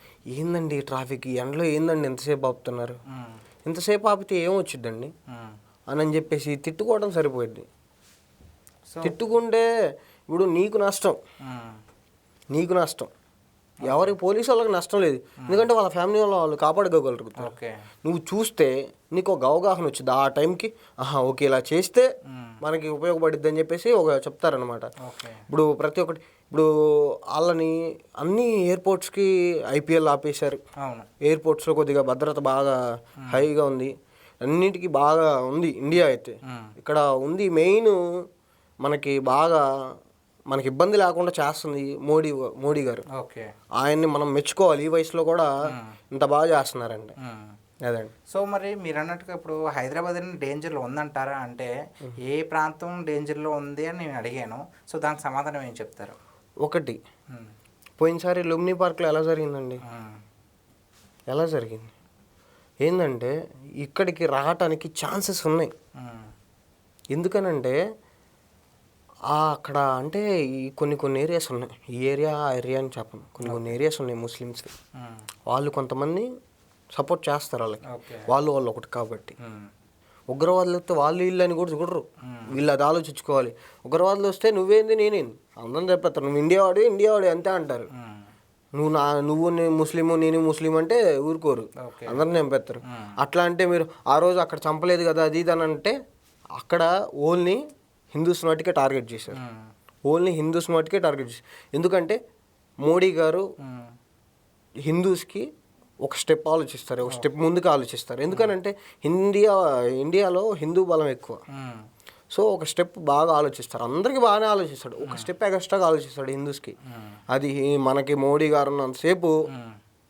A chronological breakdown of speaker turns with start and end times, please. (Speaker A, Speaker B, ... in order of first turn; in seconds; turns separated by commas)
Speaker A: 0.3-3.0, Speaker B: 3.1-3.4, Speaker A: 3.6-5.1, Speaker B: 5.3-5.5, Speaker A: 5.9-7.7, Speaker B: 8.9-9.2, Speaker A: 9.0-9.7, Speaker A: 10.3-11.2, Speaker B: 11.4-11.8, Speaker A: 12.5-13.1, Speaker B: 13.8-14.2, Speaker A: 13.8-22.1, Speaker B: 17.4-17.7, Speaker B: 22.3-22.6, Speaker A: 22.6-24.9, Speaker B: 25.0-25.4, Speaker A: 25.5-30.6, Speaker B: 30.8-31.1, Speaker A: 31.2-32.8, Speaker A: 33.3-33.9, Speaker A: 34.4-38.0, Speaker B: 36.5-36.7, Speaker A: 38.8-39.6, Speaker A: 40.5-43.0, Speaker B: 43.1-43.5, Speaker A: 43.8-45.5, Speaker A: 46.1-47.1, Speaker B: 47.2-47.5, Speaker A: 47.8-48.1, Speaker B: 48.3-51.7, Speaker B: 52.2-56.2, Speaker A: 56.6-57.0, Speaker A: 58.0-59.8, Speaker B: 59.9-60.2, Speaker A: 61.3-61.9, Speaker A: 62.8-65.7, Speaker B: 66.0-66.3, Speaker A: 67.1-67.8, Speaker A: 69.3-74.7, Speaker B: 73.4-73.8, Speaker B: 75.0-75.3, Speaker A: 75.5-76.3, Speaker A: 76.9-79.3, Speaker B: 77.9-78.3, Speaker B: 79.4-79.7, Speaker A: 80.3-87.9, Speaker B: 82.2-82.6, Speaker B: 87.9-88.3, Speaker A: 88.8-95.9, Speaker B: 91.8-92.2, Speaker A: 96.6-97.6, Speaker A: 98.1-99.4, Speaker B: 99.3-99.7, Speaker A: 100.1-102.2, Speaker A: 102.8-103.5, Speaker B: 103.6-103.9, Speaker A: 104.9-105.5, Speaker A: 106.0-111.4, Speaker B: 111.5-111.8, Speaker A: 112.3-116.7, Speaker B: 116.9-117.2, Speaker A: 117.3-119.3, Speaker B: 119.5-119.8